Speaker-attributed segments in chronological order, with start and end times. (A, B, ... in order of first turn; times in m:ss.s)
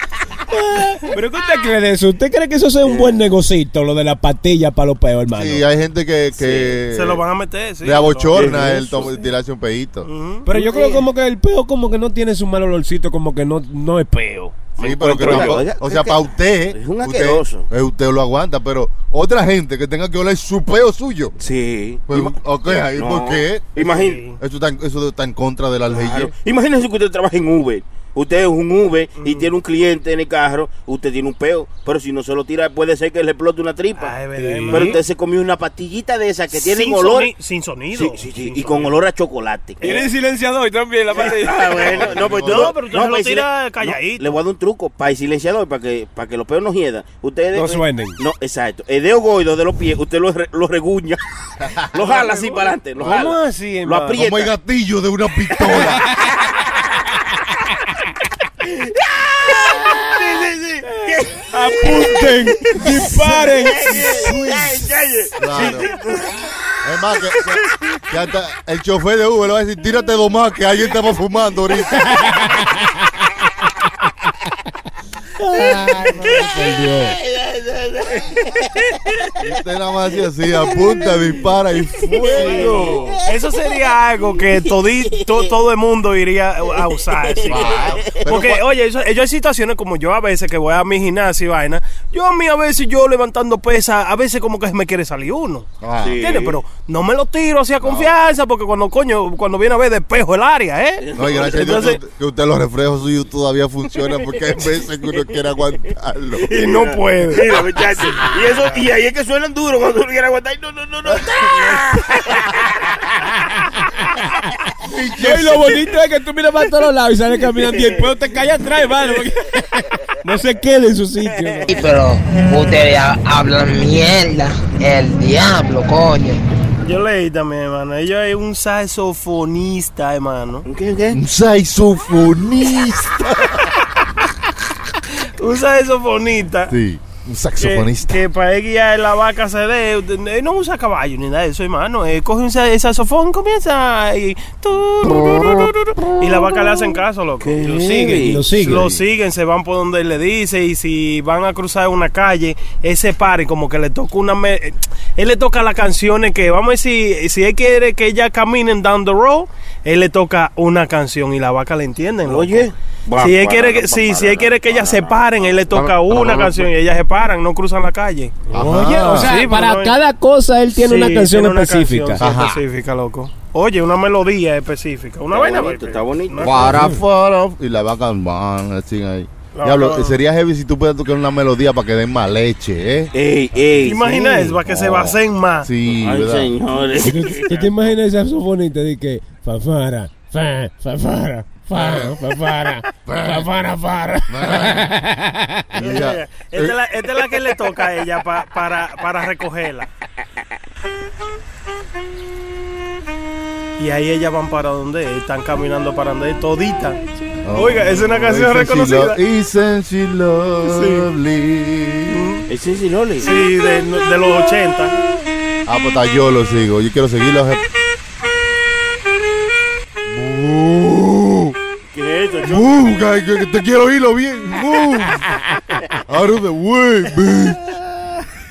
0:00.5-0:05.6 A
0:02.8-0:03.2 B
0:05.3-0:07.2 C
0:06.3-0:06.8 B
0:06.9-0:08.7 D
0:07.8-0:10.1 C
0:08.4-0:08.8 B
0:08.4-0:08.9 A
0:10.0-0:10.5 D
0:10.5-0:15.7 A
0:10.5-0:11.1 B
0:14.8-0:21.4 C
0:15.1-0:17.7 B
0:21.4-0:24.2 B
0:22.1-0:26.3 C
0:23.8-0:24.4 D
0:25.9-0:34.2 B
0:29.2-0:29.5 D
0:34.0-0:35.0 D
0:34.4-0:35.0 A
0:34.7-0:37.3 B
0:36.5-0:39.0 D
0:37.9-0:40.0 B
0:39.8-0:40.1 D
0:39.8-0:42.1 A
0:41.1-0:51.2 B
0:41.9-0:42.8 C
0:42.4-0:44.4 D
0:47.5-0:48.2 A
0:51.6-0:51.9 C
0:51.7-0:54.5 B
0:52.0-0:52.7 D
0:53.0-0:54.2 A
0:54.2-0:56.1 C
0:55.6-0:56.5 A
0:59.2-1:02.2 B
1:00.9-1:04.8 A
1:02.7-1:06.8 B
1:05.4-1:05.9 C
1:06.8-1:12.1 C
1:12.0-1:12.7 A
1:15.4-1:17.2 A
1:17.2-1:19.4 B
1:19.4-1:22.9 C
1:20.9-1:21.2 B
1:22.0-1:23.6 B
1:22.3-1:42.0 D
1:22.4-1:23.2 A
1:24.4-1:25.5 B
1:26.7-1:28.4 B
1:27.5-1:28.6 C
1:35.8-1:36.2 C
1:36.0-1:36.6 B
1:37.8-1:38.1 C
1:41.0-1:41.7 B
1:41.2-1:46.5 C
1:46.4-1:52.9 B
1:46.5-1:48.3 A
1:46.7-1:47.4 D
1:51.1-1:51.7 C
1:54.8-1:55.8 C
1:55.2-2:01.8 A
2:01.7-2:06.4 E
2:06.8-2:10.7 D
2:10.7-2:11.2 B
2:11.1-2:13.9 C
2:15.2-2:16.8 D
2:16.7-2:18.2 C
2:17.6-2:27.6 D
2:27.4-2:28.8 B
2:27.6-2:29.0 A
2:28.6-2:48.4 D
2:42.3-2:45.2 B
2:45.7-2:46.7 C
2:48.5-2:52.2 A
2:48.5-2:49.4 C
2:49.0-2:50.0 D
2:50.7-2:56.7 D
2:52.2-2:52.6 C
2:55.3-2:56.8 B
2:56.4-3:03.1 C
2:56.7-2:57.0 A
2:59.5-3:00.2 D
3:03.1-3:04.0 B
3:03.8-3:05.7 D
3:04.1-3:04.4 A
3:04.4-3:06.5 C
3:05.9-3:07.7 B
3:07.0-3:15.5 A
3:11.7-3:12.3 C
3:13.1-3:13.7 C
3:14.3-3:14.9 C
3:15.7-3:16.8 C
3:15.8-3:19.9 D
3:23.8-3:27.0 D
3:27.4-3:32.3 C
3:27.5-3:29.2 D
3:30.6-3:31.1 D
3:32.1-3:32.5 D
3:32.5-3:33.3 B
3:33.2-3:35.0 D
3:35.7-3:37.6 C
3:40.1-3:41.6 C
3:41.9-3:42.9 B
3:42.4-3:45.3 C
3:46.0-3:48.2 C